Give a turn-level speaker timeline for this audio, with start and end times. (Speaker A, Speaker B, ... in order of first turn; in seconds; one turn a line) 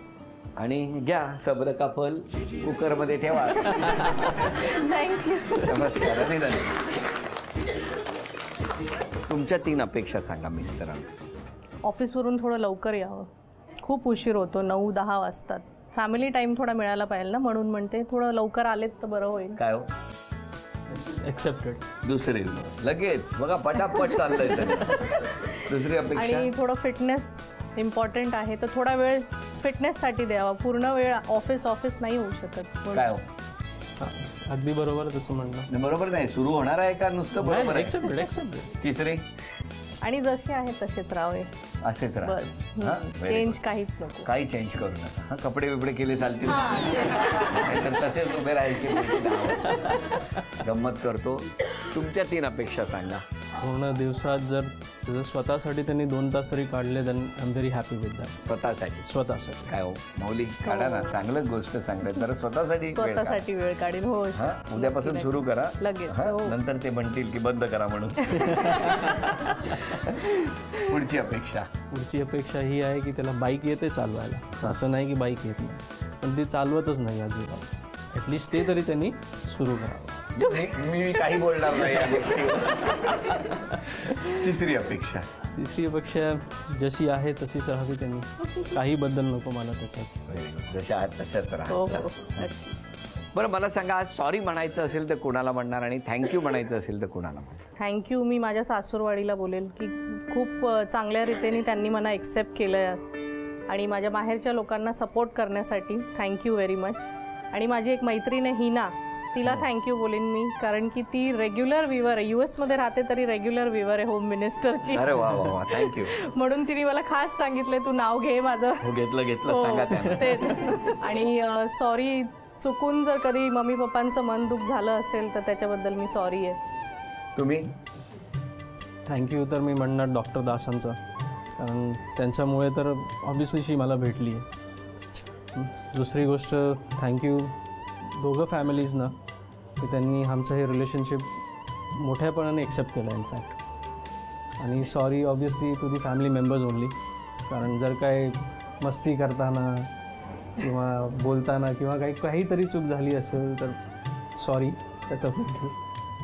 Speaker A: 0.6-4.6
Speaker B: 4.6-6.3
Speaker A: 5.7-6.8
Speaker A: 9.3-11.1
Speaker B: 11.8-13.3
Speaker B: 13.8-19.6
Speaker A: 19.6-19.9
Speaker C: 20.9-21.9
Speaker A: 22.0-26.5
Speaker B: 26.1-33.1
Speaker A: 32.9-33.2
Speaker C: 34.0-35.7
Speaker A: 35.7-38.1
Speaker C: 37.4-38.7
Speaker A: 38.8-39.2
Speaker B: 40.0-41.5
Speaker A: 41.8-43.6
Speaker B: 42.2-44.3
Speaker A: 44.2-53.2
Speaker C: 49.8-50.2
Speaker C: 53.6-58.4
Speaker A: 58.5-59.1
Speaker C: 59.0-59.7
Speaker A: 59.7-63.5
Speaker B: 60.6-61.2
Speaker B: 62.9-66.5
Speaker A: 64.3-71.7
Speaker C: 68.5-70.0
Speaker C: 71.9-80.2
Speaker A: 80.3-85.3
Speaker C: 83.5-84.1
Speaker C: 85.5-90.1
Speaker A: 90.3-92.5
Speaker B: 91.7-92.8
Speaker A: 93.3-97.6
Speaker B: 97.8-103.0
Speaker B: 103.7-118.9
Speaker A: 114.9-116.1
Speaker A: 118.8-120.6
Speaker B: 119.5-126.6
Speaker A: 127.4-127.7
Speaker C: 129.1-131.0
Speaker C: 131.6-134.5
Speaker C: 135.5-137.5
Speaker C: 138.1-139.1
Speaker C: 139.8-141.3
Speaker C: 141.9-143.6
Speaker C: 144.6-146.9
Speaker C: 147.5-149.9
Speaker C: 150.6-153.8
Speaker C: 154.4-155.7